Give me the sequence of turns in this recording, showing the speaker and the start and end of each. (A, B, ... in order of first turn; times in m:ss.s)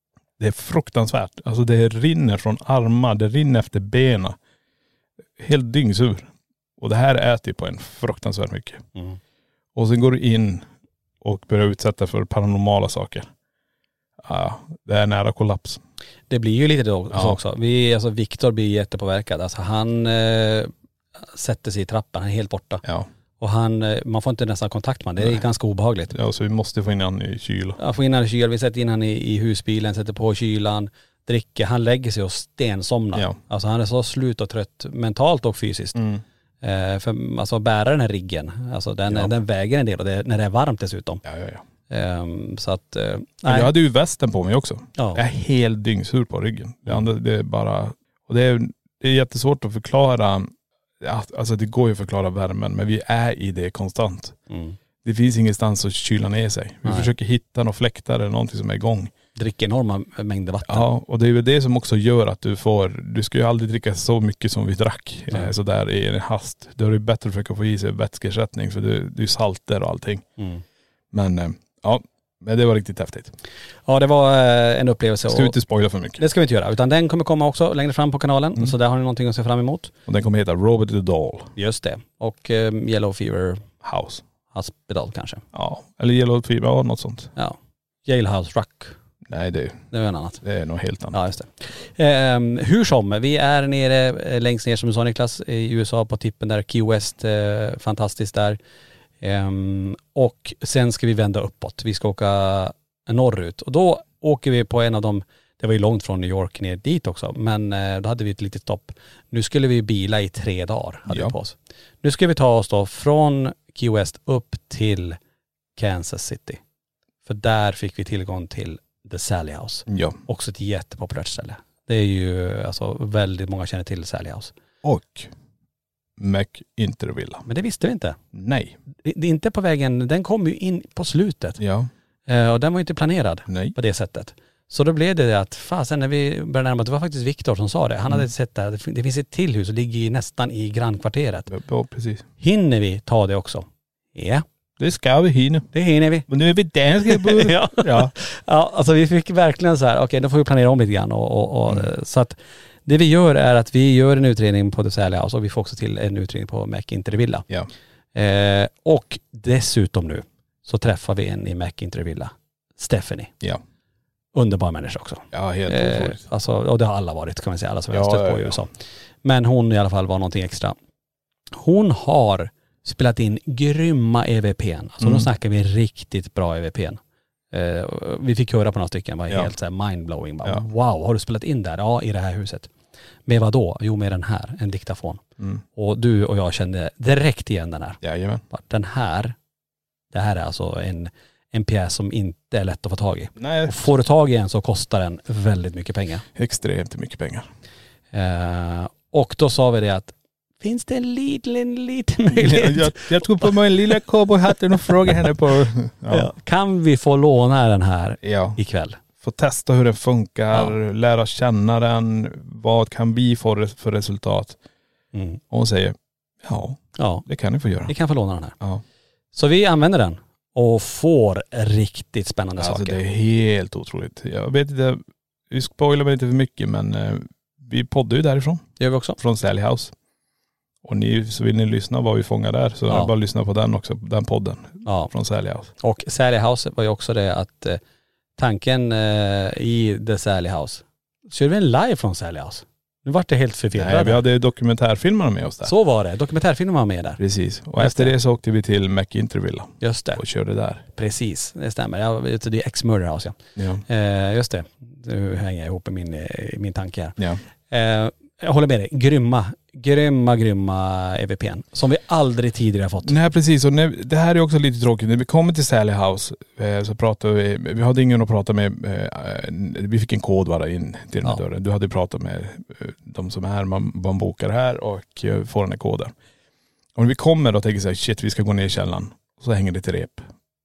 0:00.4-0:04.4 A
0:05.4-0:08.8 A
0:09.7-0:10.7 A
0:11.2-0:13.3 A
0:14.2-0:15.8 A
0:16.3-0:20.7 B
0:17.1-0:17.4 A
0:21.2-0:22.8 B
0:23.4-0:26.1 B
0:26.1-0:27.8 A
0:27.8-0:36.0 B
0:36.0-0:36.2 A
0:36.6-0:41.2 B
0:41.2-0:41.6 A
0:41.9-0:43.7 B
0:43.4-0:54.4 A
0:45.0-0:45.2 B
0:54.5-0:54.8 B
0:55.0-0:59.1 A
0:56.8-0:57.1 B
0:59.3-1:00.9 B
1:00.6-1:10.2 A
1:10.4-1:10.6 B
1:11.1-1:13.3 A
1:13.9-1:15.6 B
1:15.3-1:16.2 A
1:16.2-1:19.9 B
1:20.0-1:21.5 A
1:21.6-1:23.6 B
1:23.8-1:24.2 A
1:24.5-1:25.4 B
1:25.5-1:27.3 A
1:27.4-1:28.9 B
1:29.3-1:29.9 A
1:29.9-1:30.4 B
1:30.4-1:31.2 A
1:31.1-1:38.6 B
1:39.2-1:55.2 B
1:51.1-1:51.3 A
1:55.8-1:56.6 B
1:57.2-2:04.5 B
1:59.9-2:00.2 A
2:04.8-2:05.3 A
2:06.2-2:07.4 A
2:07.4-2:08.2 B
2:08.3-2:08.8 A
2:09.0-2:11.6 B
2:11.6-2:11.9 A
2:12.3-2:21.5 B
2:13.5-2:13.8 A
2:21.5-2:22.2 A
2:22.4-2:24.4 B
2:24.8-2:25.7 A
2:25.7-2:26.3 B
2:26.3-2:28.1 A
2:27.0-2:37.5 B
2:38.1-2:43.3 B
2:44.3-2:48.7 B
2:45.3-2:46.2 A
2:47.9-2:48.6 A
2:49.2-2:50.7 B
2:51.5-2:57.0 B
2:55.0-2:55.3 A
2:57.5-3:02.7 B
3:03.2-3:05.2 B
3:05.7-3:08.0 B
3:08.0-3:08.4 A
3:08.5-3:09.3 B
3:10.1-3:16.2 B
3:13.4-3:13.9 A
3:16.3-3:17.5 A
3:18.1-3:23.6 B
3:22.3-3:26.3 A
3:26.1-3:29.0 B
3:28.2-3:28.6 A
3:29.2-3:34.6 A
3:35.1-3:35.4 B
3:35.5-3:37.9 A
3:37.0-3:37.2 B
3:37.9-3:38.6 B
3:39.3-3:43.0 B
3:42.6-3:49.9 A
3:48.8-3:49.2 B
3:50.8-3:55.7 A
3:54.8-3:55.1 B
3:55.8-3:57.8 B
3:58.4-4:04.2 B
4:03.7-4:05.7 A
4:05.6-4:07.2 B
4:07.2-4:10.8 A
4:07.8-4:08.1 B
4:09.8-4:10.2 B
4:10.9-4:17.2 B
4:13.6-4:13.8 A
4:17.7-4:23.2 B
4:23.0-4:36.1 A
4:37.0-4:40.3 A